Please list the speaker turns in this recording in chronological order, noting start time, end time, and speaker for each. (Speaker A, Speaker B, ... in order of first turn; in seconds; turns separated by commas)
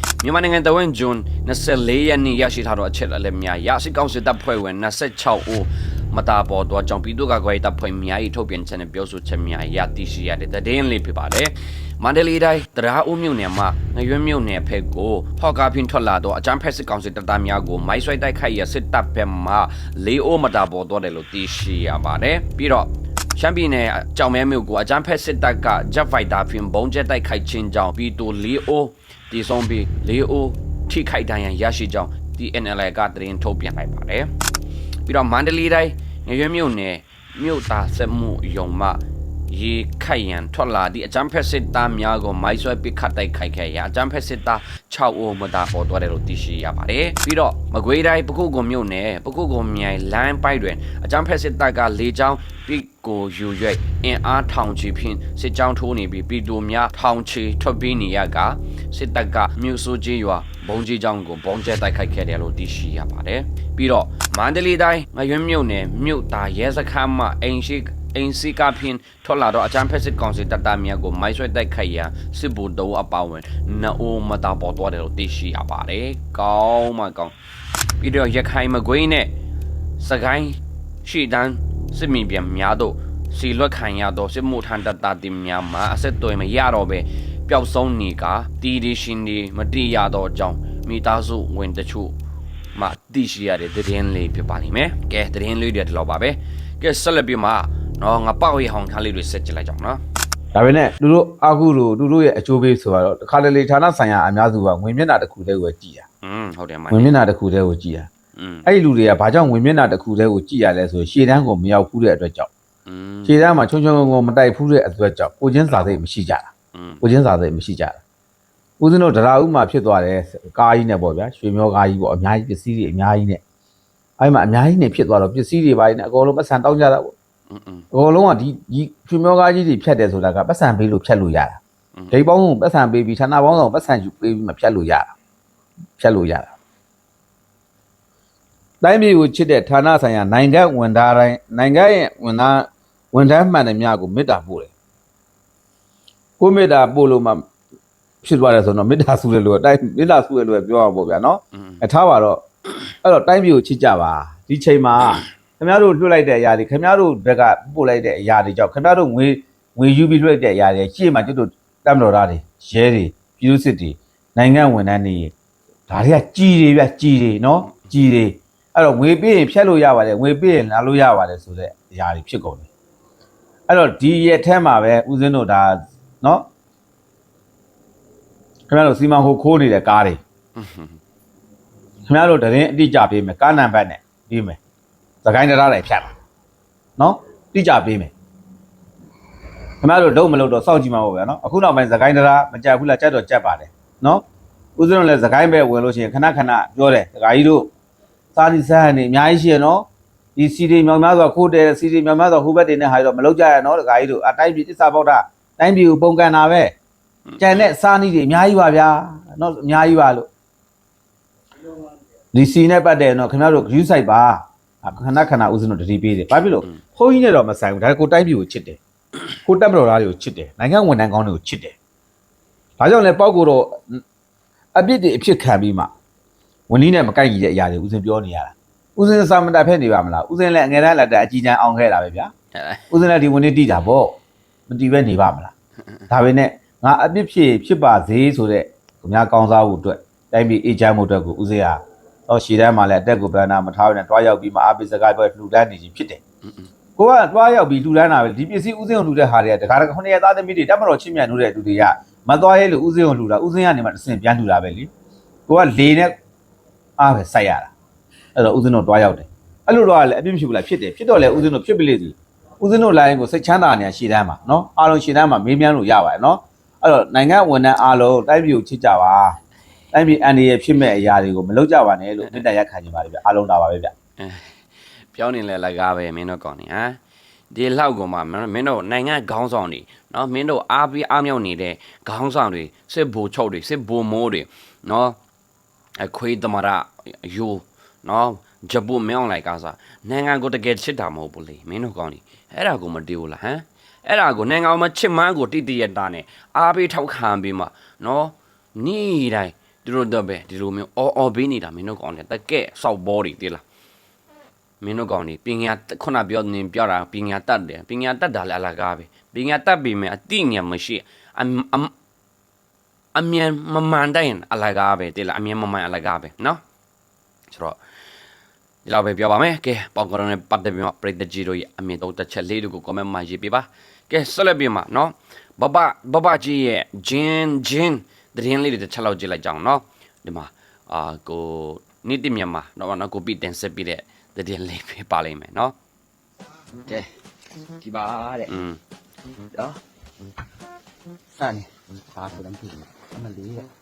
Speaker A: 0.2-34.3, Speaker A: 35.0-39.0, Speaker A: 39.5-77.3, Speaker A: 78.0-79.3, Speaker A: 80.0-92.2, Speaker A: 92.7-100.0, Speaker B: 100.5-106.0, Speaker A: 106.2-107.2, Speaker B: 106.9-108.1, Speaker A: 108.3-108.7, Speaker B: 108.7-112.5, Speaker A: 112.9-113.5, Speaker B: 113.2-116.5, Speaker A: 115.7-116.0, Speaker A: 116.7-117.0, Speaker B: 117.0-118.0, Speaker B: 118.8-123.4, Speaker B: 124.2-127.1, Speaker A: 127.5-127.8, Speaker B: 127.9-131.6, Speaker A: 131.9-132.2, Speaker B: 132.1-135.1, Speaker B: 136.0-136.5, Speaker B: 138.8-144.7, Speaker B: 146.4-147.5, Speaker B: 148.2-152.4, Speaker A: 151.5-151.8, Speaker B: 153.0-165.3, Speaker B: 165.9-172.7, Speaker B: 173.7-176.4, Speaker B: 178.7-180.2, Speaker A: 180.6-181.0, Speaker B: 182.1-184.6, Speaker B: 185.2-186.1, Speaker B: 187.0-188.1, Speaker B: 189.8-194.2, Speaker B: 194.8-197.7, Speaker B: 198.3-206.7, Speaker A: 207.2-207.7, Speaker B: 207.4-210.3, Speaker B: 212.3-218.8, Speaker B: 219.4-221.7, Speaker B: 222.8-224.0, Speaker B: 224.8-225.9, Speaker B: 226.7-232.3, Speaker A: 232.5-232.8, Speaker B: 232.9-235.5, Speaker B: 236.1-246.2, Speaker B: 247.0-254.9, Speaker B: 255.5-256.1, Speaker B: 257.0-257.7, Speaker B: 258.4-269.4, Speaker B: 269.9-273.9, Speaker A: 274.2-274.5, Speaker A: 275.1-277.0, Speaker A: 277.5-285.2, Speaker A: 286.0-303.6, Speaker A: 304.8-311.9, Speaker A: 313.1-316.6, Speaker A: 317.5-317.8, Speaker A: 318.9-335.7, Speaker C: 337.8-338.5, Speaker A: 338.5-338.8, Speaker C: 341.3-343.7